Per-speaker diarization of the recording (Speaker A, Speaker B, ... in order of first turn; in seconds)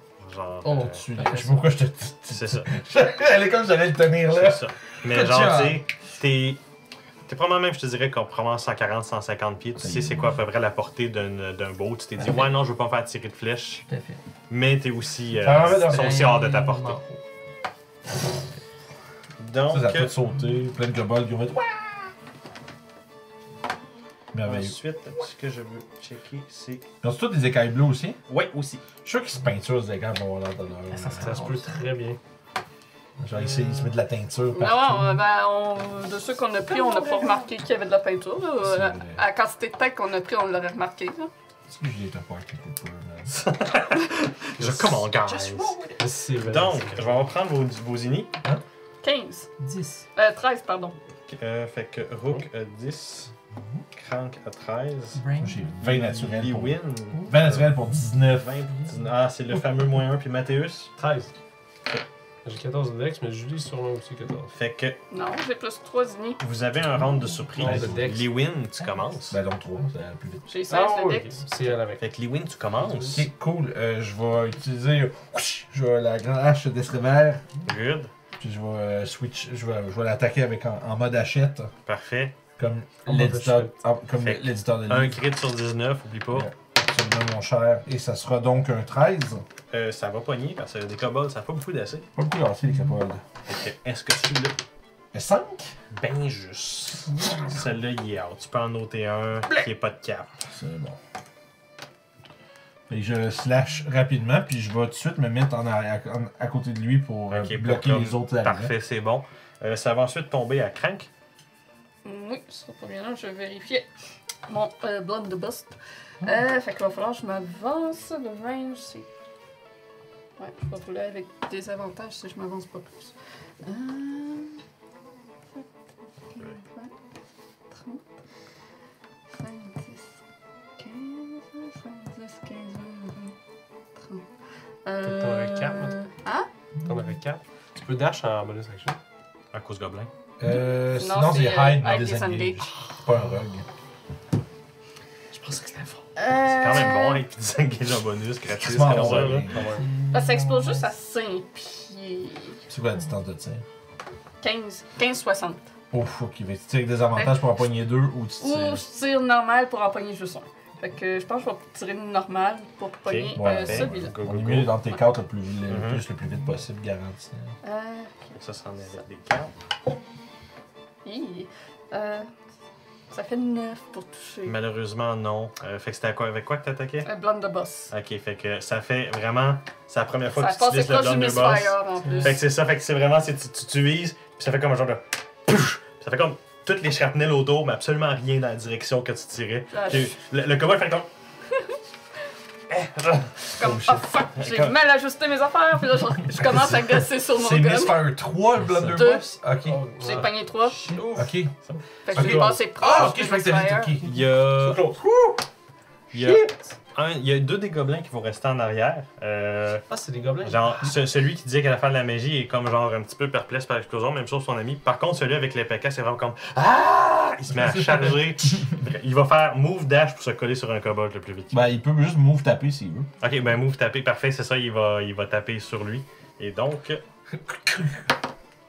Speaker A: 0.2-0.9, 2.3-2.7, 4.3-6.6, 7.3-13.8, 14.5-17.0, 19.4-20.1, 24.4-26.9, 28.3-28.8, 43.3-45.7, 46.4-48.3, 51.3-53.3, 53.9-55.2, 55.8-57.7, 58.3-60.9, 64.5-65.0, 66.4-69.4, 72.0-73.2, 77.6-78.1, 81.8-82.3, 84.2-86.5, 89.7-92.1, 93.5-94.6, 95.9-100.3, 107.3-111.1, 139.5-140.1, 146.4-149.6, 163.1-164.8, 165.7-166.0, 168.3-169.5, 174.4-177.1, 177.9-191.1, 192.7-193.8, 194.3-194.8, 204.0-204.8, 206.1-209.8, 210.4-221.7, 223.2-227.0
Speaker B: 0.6-1.7, 5.2-5.7, 12.2-12.5, 13.8-14.2, 15.6-17.2, 30.9-31.8, 36.7-37.5, 45.1-46.0, 49.6-50.0, 55.1-55.7, 97.1-97.4, 149.8-150.8, 198.7-199.0
Speaker C: 0.7-5.3, 9.8-10.3, 15.4-16.2, 19.7-22.1, 24.3-24.8, 27.0-28.2, 29.0-31.4, 33.2-35.2, 38.6-39.2, 41.7-43.3, 55.4-58.5, 67.6-68.0, 69.3-70.5, 73.1-77.4, 78.4-81.7, 82.6-85.2, 86.3-89.4, 92.2-93.2, 95.1-95.7, 100.5-101.0, 102.9-108.7, 140.4-143.6, 148.5-149.6, 152.7-153.6, 155.9-158.8, 163.3-167.5, 193.6-194.0, 196.4-199.8, 201.1-201.5, 202.1-205.4, 217.5-218.1, 221.5-223.1, 227.5-228.0
Speaker D: 31.2-32.2, 44.6-45.0, 46.0-47.3, 61.0-61.3, 62.4-64.5, 67.5-68.3, 70.7-72.0, 72.8-73.2, 83.0-83.8, 135.0-135.9, 136.8-139.0, 145.3-146.0, 148.8-149.9, 199.6-201.3, 202.1-202.6, 206.1-206.6, 209.9-210.9
Speaker E: 34.5-41.3, 49.0-49.5, 50.1-51.0, 65.1-66.4, 70.5-71.4, 112.0-113.8, 114.5-119.1, 120.4-124.6, 126.2-126.9, 127.7-128.0, 129.3-130.1, 130.8-133.3, 134.0-134.2, 134.8-136.5, 140.5-142.7, 146.2-147.2, 150.1-152.6, 154.4-155.6, 157.1-157.5, 158.4-164.1, 167.6-168.4, 171.0-172.3, 173.1-174.6, 177.0-177.9, 180.3-182.4, 189.7-190.1, 193.5-198.0, 198.9-199.4, 200.0-200.9, 202.0-203.9